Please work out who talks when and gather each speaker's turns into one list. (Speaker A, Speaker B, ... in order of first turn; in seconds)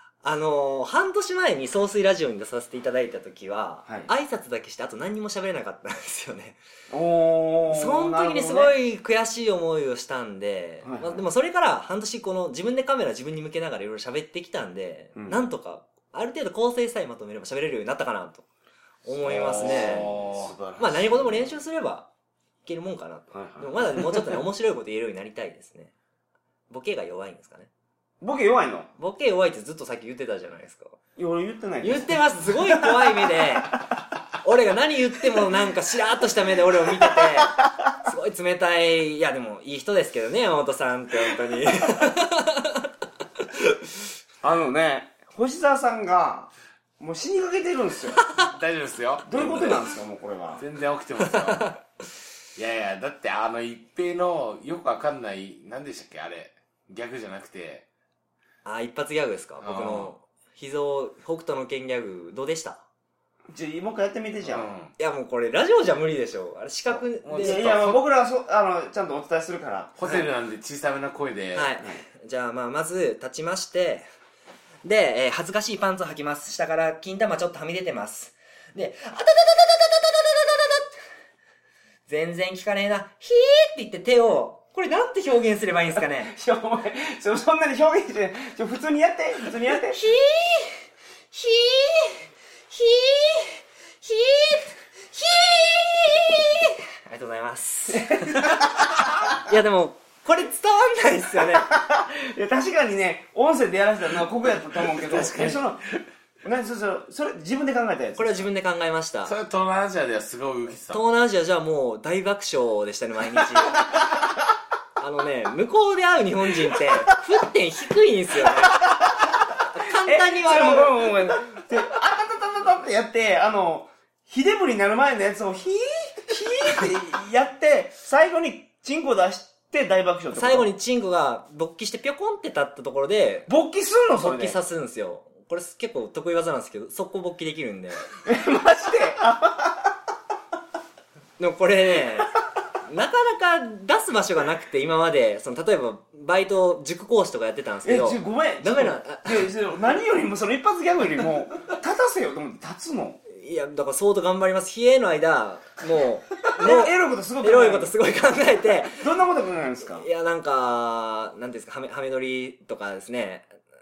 Speaker A: 0.2-6.6, 7.7-18.4, 19.0-20.2, 20.8-22.1, 22.6-25.9, 26.7-27.7, 29.0-31.0, 31.8-33.8, 34.4-42.9, 51.5-51.8, 58.6-62.8, 65.0-68.0, 71.5-74.1, 74.8-80.9, 82.1-86.3, 89.9-90.8, 91.3-101.7, 108.2-109.3, 110.9-113.9, 115.0-118.9, 119.6-121.1, 130.3-133.5, 134.2-138.1, 141.4-142.3, 142.8-149.5, 153.3-159.0, 159.8-163.5
Speaker B: 3.8-4.1, 6.9-8.7, 10.8-11.2, 15.2-15.4, 19.6-20.9, 23.3-24.4, 28.2-28.9, 31.2-33.8, 37.0-37.5, 44.4-48.2, 49.3-50.6, 63.5-64.7, 67.4-70.0, 86.3-90.0, 97.9-98.9, 101.4-105.8, 106.4-108.4, 119.8-130.7, 133.5-134.6, 138.2-139.9, 147.8-153.2, 156.5-157.9, 158.9-160.1
Speaker C: 19.2-21.5, 48.3-49.9, 50.6-51.7, 52.5-57.8, 59.6-60.1, 64.5-64.9, 67.2-68.0, 70.0-71.7, 104.8-105.8, 109.2-111.0